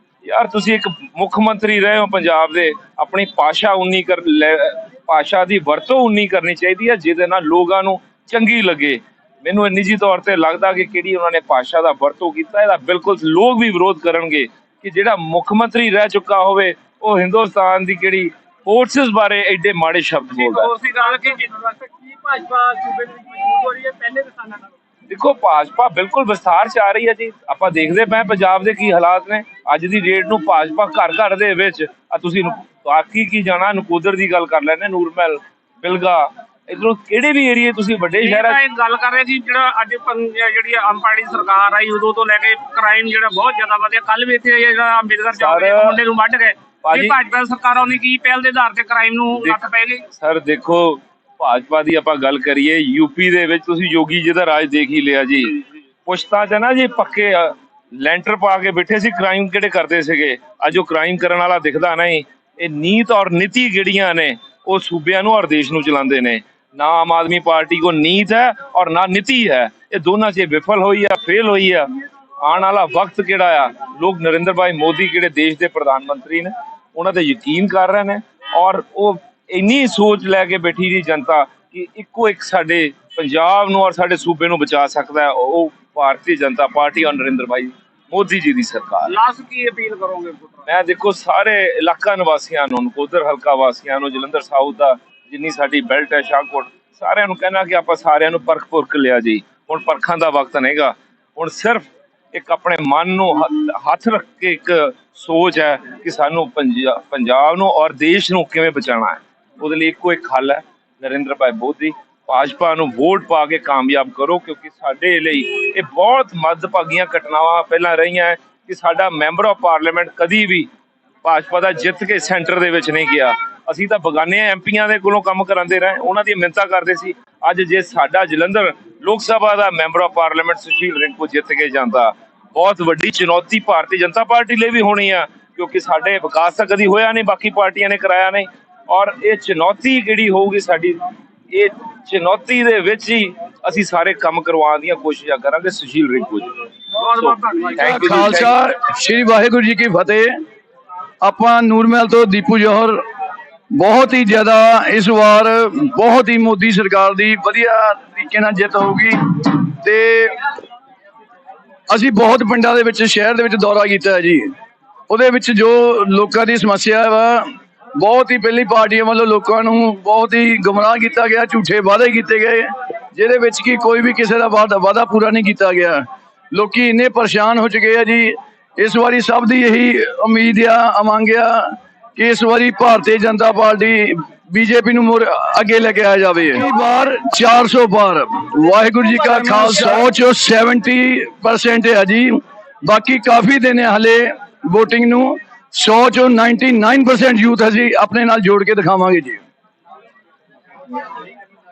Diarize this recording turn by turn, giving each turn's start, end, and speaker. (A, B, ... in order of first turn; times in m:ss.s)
0:00.2-0:20.7 A
0:20.4-0:24.6 B
0:25.1-0:38.6 A
0:38.2-0:50.0 B
0:45.3-0:46.0 A
0:46.8-0:47.2 A
0:50.2-1:11.9 A
1:12.4-1:29.1 A
1:29.0-1:30.7 B
1:30.7-2:00.7 A
2:01.2-2:28.6 A
2:27.0-2:28.0 B
2:27.8-2:30.4 C
2:31.2-2:33.0 C
2:33.8-2:40.4 C
2:41.9-2:44.5 C
2:45.1-3:19.4 C